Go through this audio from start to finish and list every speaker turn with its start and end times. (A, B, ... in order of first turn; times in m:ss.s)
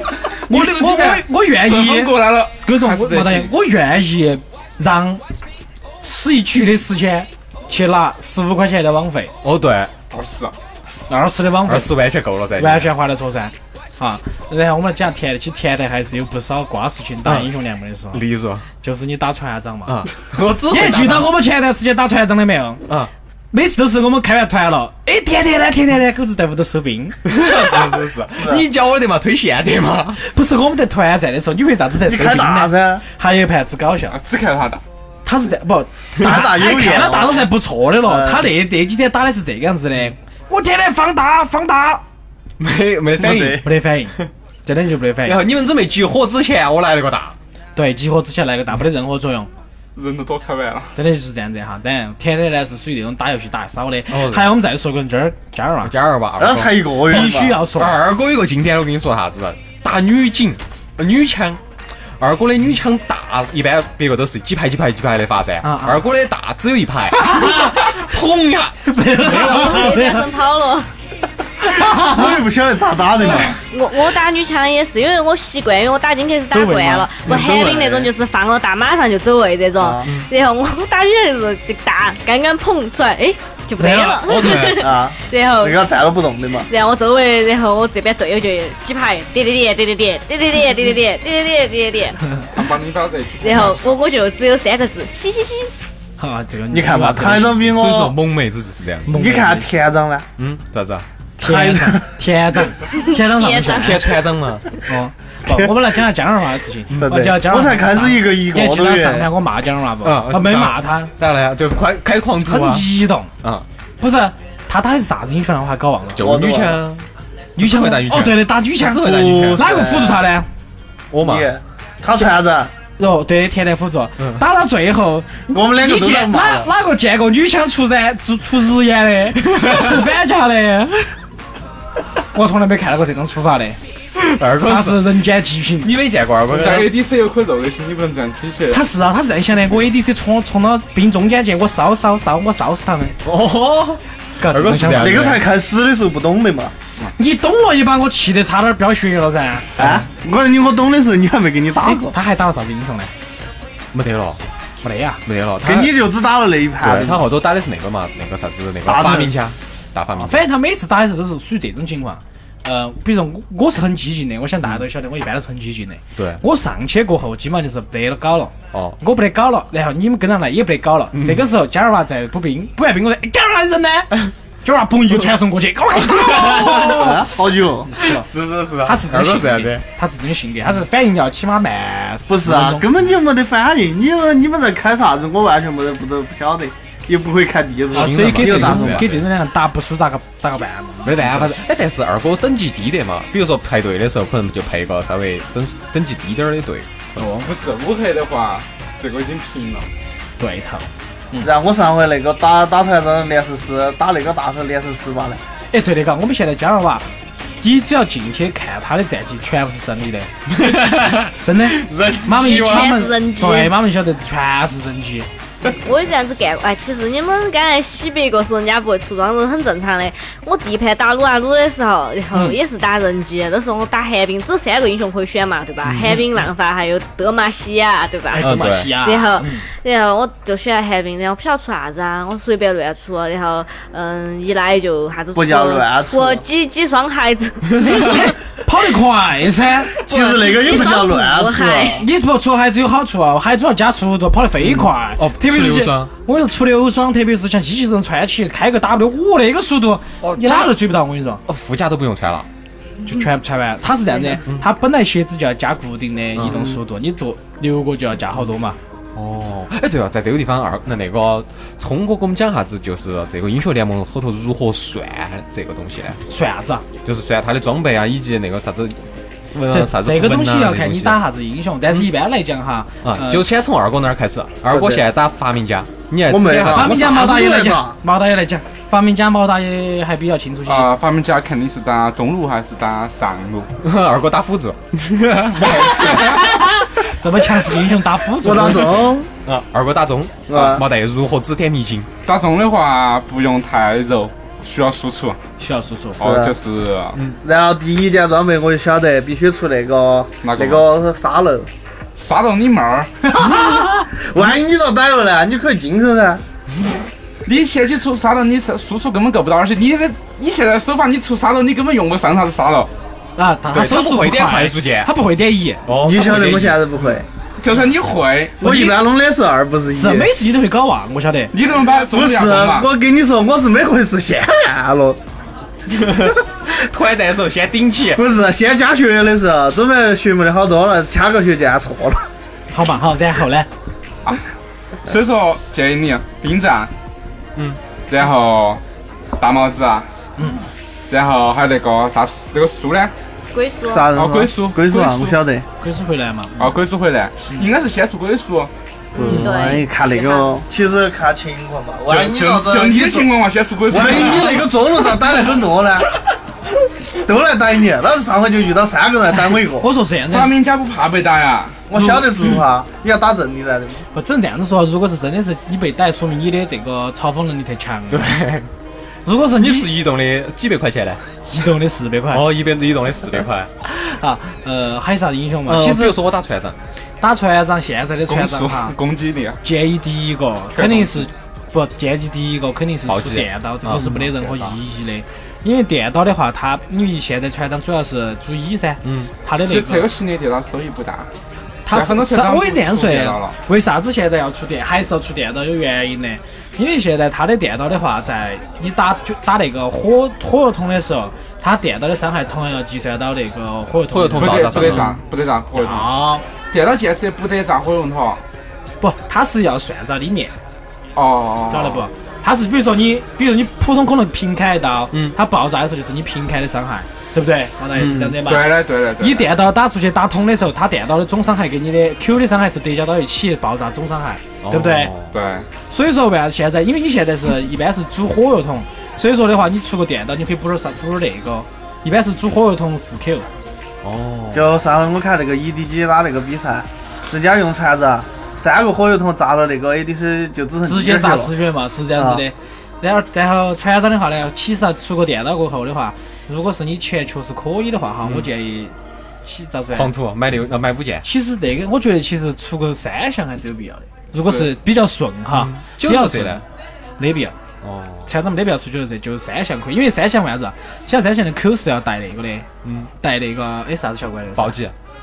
0:00.4-0:03.5 A
0:00.4-0:05.2 B
0:06.0-0:09.3 B
0:09.4-0:09.9 C
0:10.1-0:10.5 A
0:11.1-0:12.0 B
0:11.6-0:12.9 C
0:12.6-0:18.2 B
0:17.2-0:17.5 C
0:18.1-0:18.6 C
0:18.8-0:20.0 B
0:19.9-0:21.3 C
0:20.7-0:22.8 B
0:23.5-0:27.2 B
0:27.2-0:30.2 C
0:28.3-0:28.6 D
0:30.2-0:34.2 B
0:32.0-0:33.0 D
0:34.1-0:34.8 A
0:35.2-0:42.0 B
0:36.2-0:36.6 C
0:36.2-0:37.5 D
0:38.0-0:38.5 D
0:42.6-0:43.6 C
0:43.2-0:45.4 B
0:43.2-0:43.6 D
0:45.2-0:47.4 C
0:47.8-0:49.5 B
0:50.0-0:50.9 A
0:50.9-0:55.9 B
0:54.1-0:54.5 C
0:55.8-1:01.6 C
0:56.4-0:57.6 D
0:57.0-0:58.0 B
1:02.2-1:10.0 C
1:05.6-1:06.1 B
1:07.1-1:07.9 B
1:08.8-1:10.2 B
1:09.2-1:10.9 E
1:11.6-1:12.3 B
1:11.9-1:13.6 D
1:13.7-1:25.8 E
1:16.5-1:17.1 B
1:17.2-1:18.1 D
1:19.8-1:20.1 D
1:23.8-1:24.2 B
1:24.2-1:25.0 C
1:24.5-1:26.7 D
1:26.6-1:32.2 E
1:32.5-1:33.8 A
1:33.4-1:35.7 E
1:36.2-1:37.6 B
1:36.7-1:38.1 D
1:37.5-1:39.2 C
1:39.0-1:39.7 B
1:39.1-1:40.3 D
1:40.4-1:41.0 C
1:41.4-1:44.0 B
1:41.4-1:42.2 D
1:43.0-1:44.2 E
1:43.7-1:44.7 C
1:44.8-1:51.1 B
1:45.5-1:45.7 D
1:46.9-1:47.2 C
1:47.0-1:49.3 D
1:50.0-1:52.9 C
1:52.4-1:53.3 B
1:54.0-1:56.3 B
1:56.1-1:59.6 C
1:56.2-1:56.8 D
1:57.6-2:00.5 B
1:59.0-2:00.2 D
2:01.1-2:01.5 C
2:01.2-2:02.7 D
2:03.0-2:11.2 B
2:05.5-2:06.7 D
2:09.4-2:10.0 C
2:12.2-2:13.8 B
2:14.1-2:15.2 C
2:14.6-2:15.9 B
2:15.8-2:16.9 C
2:16.5-2:18.8 A
2:18.7-2:23.2 B
2:23.2-2:25.4 C
2:24.4-2:25.4 B
2:24.9-2:26.7 D
2:27.2-2:30.1 B
2:29.8-2:32.1 D
2:31.8-2:33.1 B
2:33.9-2:34.4 C
2:34.8-2:35.2 B
2:35.2-2:35.9 C
2:35.6-2:37.2 D
2:36.8-2:40.4 C
2:38.8-2:39.3 D
2:40.2-2:57.3 B
2:46.2-2:46.4 C
2:48.7-2:49.0 C
2:51.1-2:51.5 C
2:56.0-2:57.3 C
2:56.8-2:57.9 D
2:57.8-2:58.3 B
2:58.0-2:59.8 C
2:58.8-3:02.9 B
3:02.3-3:09.1 D
3:07.9-3:09.2 C
3:07.9-3:11.6 B
3:11.0-3:17.4 C
3:17.2-3:17.5 B
3:17.4-3:19.9 A
3:20.4-3:21.5 B
3:21.4-3:25.4 D
3:25.7-3:27.1 B
3:27.6-3:30.3 B
3:30.4-3:33.0 C
3:31.4-3:35.3 B
3:32.4-3:33.7 E
3:35.7-3:58.3 E
3:45.8-3:46.1 C
3:48.3-3:49.7 B
3:48.4-3:49.0 C
3:55.3-3:56.4 D
3:57.9-4:00.0 B
3:59.9-4:02.1 D
4:00.1-4:02.0 E
4:02.0-4:11.4 B
4:04.6-4:06.1 C
4:10.2-4:10.8 C
4:11.4-4:12.5 C
4:13.0-4:18.8 B
4:16.3-4:16.8 C
4:19.1-4:26.2 C
4:26.3-4:26.8 B
4:27.0-4:31.2 C
4:29.7-4:33.4 B
4:33.0-4:37.4 C
4:34.7-4:35.0 D
4:36.3-4:38.0 D
4:36.6-4:40.9 B
4:40.6-4:43.7 A
4:43.8-4:46.4 C
4:45.7-4:46.4 A
4:45.7-4:46.2 D
4:46.5-4:49.2 B
4:48.4-4:49.3 D
4:49.5-4:52.1 C
4:50.5-4:50.8 D
4:52.2-4:55.4 A
4:55.6-4:56.3 B
4:56.2-4:57.2 A
4:56.2-4:56.5 D
4:57.4-5:01.7 D
5:00.4-5:00.8 A
5:02.1-5:03.1 A
5:03.3-5:06.4 D
5:03.4-5:04.2 B
5:07.4-5:12.9 A
5:13.4-5:15.8 B
5:13.7-5:15.1 C
5:15.8-5:16.8 C
5:16.0-5:17.2 D
5:17.6-5:18.6 A
5:18.6-5:20.3 D
5:18.6-5:19.0 B
5:19.9-5:21.5 B
5:21.5-5:22.9 A
5:22.0-5:25.2 D
5:25.9-5:28.2 C
5:28.1-5:32.3 D
5:32.7-5:33.7 B
5:35.0-5:36.9 A
5:38.1-5:38.8 A
5:39.4-5:40.1 A
5:40.4-5:40.6 B
5:41.1-5:43.1 A
5:43.5-5:44.1 E
5:43.8-5:45.6 D
5:44.1-5:45.4 A
5:45.8-5:46.6 B
5:46.6-5:48.7 A
5:49.1-5:53.3 D
5:49.2-5:49.8 B
5:49.2-5:50.6 E
5:52.1-5:54.7 A
5:53.9-5:56.1 D
5:57.2-5:59.9 D
5:59.8-6:00.5 B
6:00.3-6:01.8 A
6:01.9-6:04.0 D
6:02.0-6:02.5 B
6:04.1-6:08.3 B
6:08.1-6:08.7 C
6:09.2-6:09.9 B
6:09.5-6:11.2 C
6:11.4-6:12.5 B
6:12.3-6:13.7 C
6:13.8-6:16.2 B
6:15.6-6:16.8 C
6:17.2-6:18.9 B
6:18.3-6:19.6 A
6:19.6-6:30.1 B
6:20.7-6:21.3 A
6:23.0-6:24.3 C
6:29.0-6:29.3 C
6:29.6-6:31.3 A
6:31.8-6:45.2 B
6:31.9-6:33.6 A
6:44.1-6:45.2 C
6:44.4-6:48.4 A
6:45.8-6:46.4 B
6:49.0-6:50.5 B
6:51.1-6:52.1 A
6:51.7-7:05.1 B
6:57.9-6:58.4 C
6:58.4-6:59.5 A
7:04.6-7:05.4 C
7:05.3-7:05.7 A
7:05.9-7:13.5 B
7:14.0-7:14.7 C
7:14.5-7:21.5 D
7:20.8-7:30.1 B
7:22.2-7:22.4 D
7:28.2-7:28.5 C
7:29.9-7:31.2 C
7:31.2-7:36.6 B
7:34.3-7:34.7 A
7:35.5-7:36.6 C
7:37.2-7:37.5 B
7:37.8-7:38.3 C
7:38.2-7:42.7 B
7:42.8-7:43.1 C
7:43.2-7:44.8 B
7:44.5-7:44.9 C